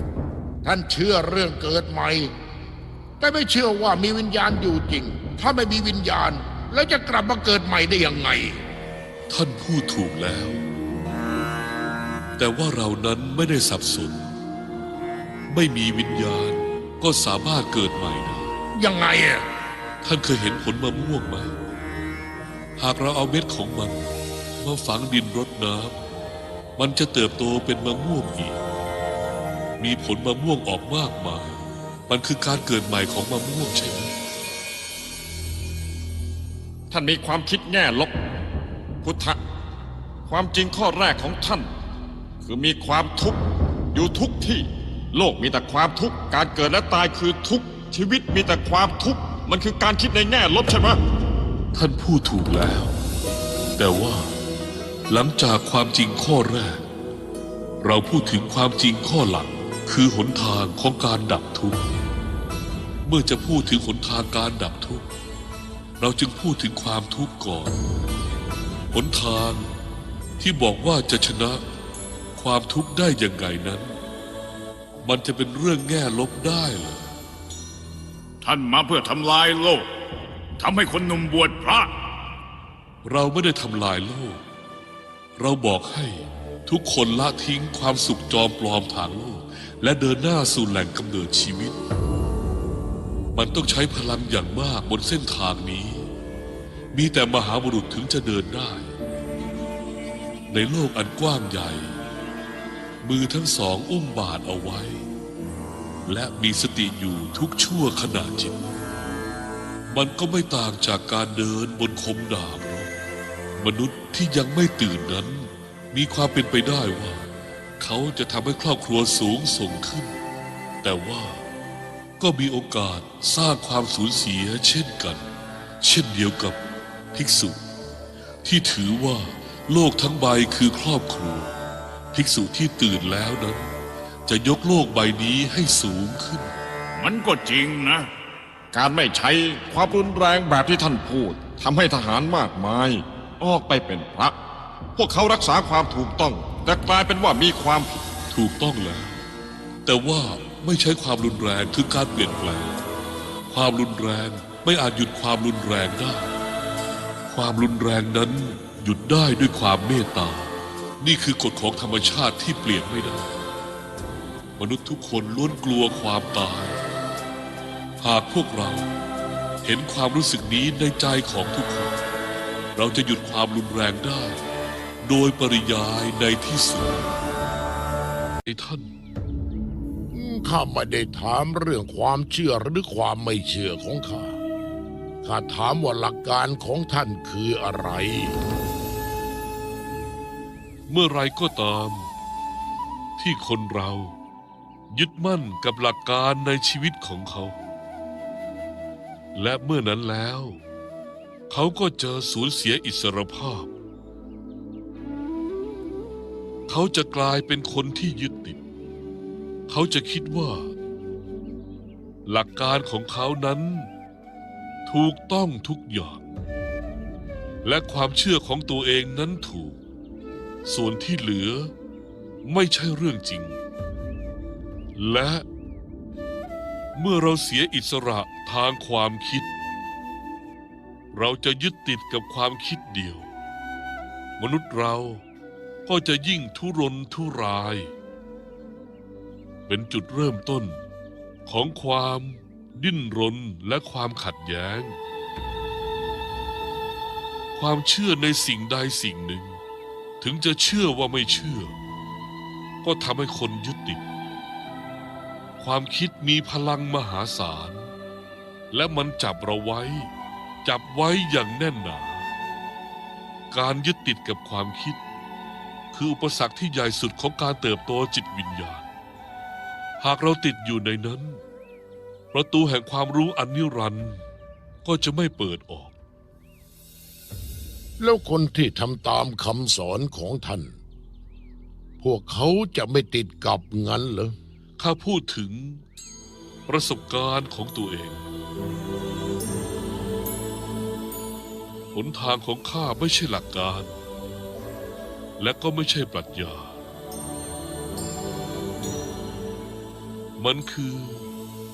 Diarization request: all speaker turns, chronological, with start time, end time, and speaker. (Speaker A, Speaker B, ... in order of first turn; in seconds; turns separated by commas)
Speaker A: 0.6-2.3, Speaker A: 3.2-8.6, Speaker B: 9.3-10.6, Speaker B: 12.4-14.3, Speaker B: 15.5-18.5, Speaker A: 18.8-19.5, Speaker B: 20.0-21.6, Speaker B: 22.8-24.0, Speaker B: 24.6-26.0, Speaker B: 26.8-28.6, Speaker B: 29.8-34.1, Speaker C: 36.9-38.1, Speaker C: 39.0-39.4, Speaker C: 40.3-41.7, Speaker C: 42.4-43.4, Speaker C: 43.9-51.0, Speaker B: 51.7-52.9, Speaker B: 53.8-54.3, Speaker B: 55.1-56.8, Speaker B: 57.8-61.9, Speaker B: 63.1-65.1, Speaker B: 66.0-67.8, Speaker B: 68.9-69.7, Speaker B: 70.4-71.6, Speaker B: 72.4-74.0, Speaker B: 75.0-77.1, Speaker D: 78.4-79.9, Speaker D: 80.6-81.9, Speaker B: 83.0-84.4, Speaker B: 85.4-91.8, Speaker B: 93.3-96.1, Speaker B: 96.9-98.9, Speaker B: 100.5-102.0, Speaker B: 103.0-105.1, Speaker B: 106.1-108.6, Speaker B: 109.9-112.9, Speaker B: 113.6-117.3, Speaker B: 117.8-120.2, Speaker B: 120.8-121.4, Speaker B: 122.2-125.2, Speaker B: 125.8-126.6, Speaker B: 127.1-127.6, Speaker B: 128.4-131.5, Speaker B: 132.1-133.7, Speaker B: 134.3-136.6, Speaker D: 137.0-138.1, Speaker C: 138.7-144.3, Speaker C: 145.0-147.9, Speaker B: 148.3-149.2, Speaker B: 149.9-152.8, Speaker B: 153.5-156.3, Speaker B: 157.3-163.4, Speaker B: 164.6-166.8, Speaker B: 168.0-168.9, Speaker B: 169.6-172.0, Speaker B: 172.8-174.4, Speaker B: 175.0-177.1, Speaker B: 178.5-178.9, Speaker A: 180.1-184.4, Speaker A: 185.2-188.4, Speaker B: 190.9-192.1, Speaker B: 193.2-194.2, Speaker B: 194.9-197.6, Speaker B: 199.3-200.6, Speaker B: 201.5-203.7, Speaker B: 206.7-208.6, Speaker B: 209.7-210.7, Speaker B: 212.3-213.9, Speaker B: 214.9-216.2, Speaker B: 217.6-219.8, Speaker B: 220.7-221.7, Speaker B: 222.4-223.6, Speaker B: 225.0-225.4, Speaker B: 226.9-229.5, Speaker B: 231.1-233.3, Speaker B: 234.4-235.2, Speaker B: 235.9-237.9, Speaker B: 239.7-240.8, Speaker B: 241.5-245.0, Speaker B: 247.6-249.6, Speaker B: 250.2-251.8, Speaker B: 252.8-254.0, Speaker B: 255.6-257.9, Speaker B: 258.7-260.1, Speaker B: 260.6-262.3, Speaker B: 263.5-265.0, Speaker B: 265.9-268.9, Speaker B: 270.0-271.4, Speaker B: 272.3-274.2, Speaker B: 274.8-275.9, Speaker A: 278.0-280.8, Speaker A: 282.0-284.4, Speaker B: 284.8-285.8, Speaker B: 286.7-288.2, Speaker B: 291.9-293.9, Speaker B: 295.4-296.8, Speaker B: 300.4-301.3